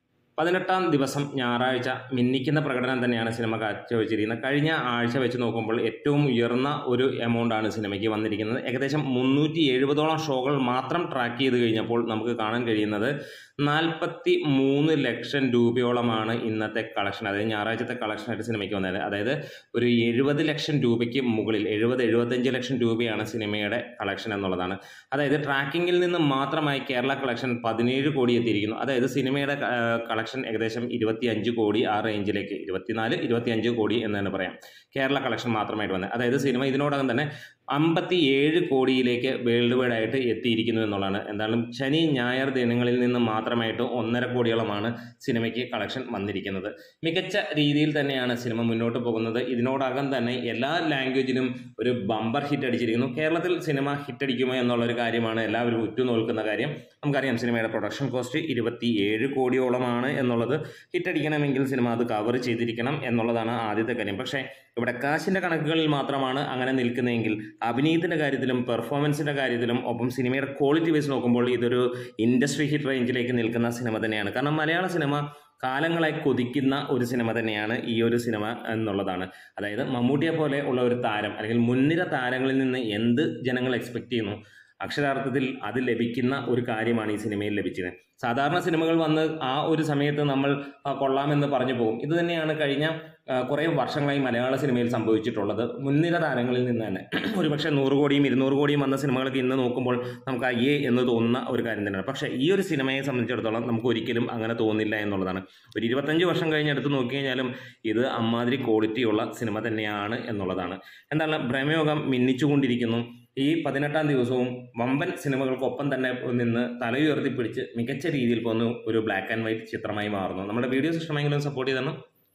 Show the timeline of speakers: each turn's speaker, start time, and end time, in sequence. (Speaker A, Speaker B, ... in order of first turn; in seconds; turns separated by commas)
Speaker A: 0.4-122.0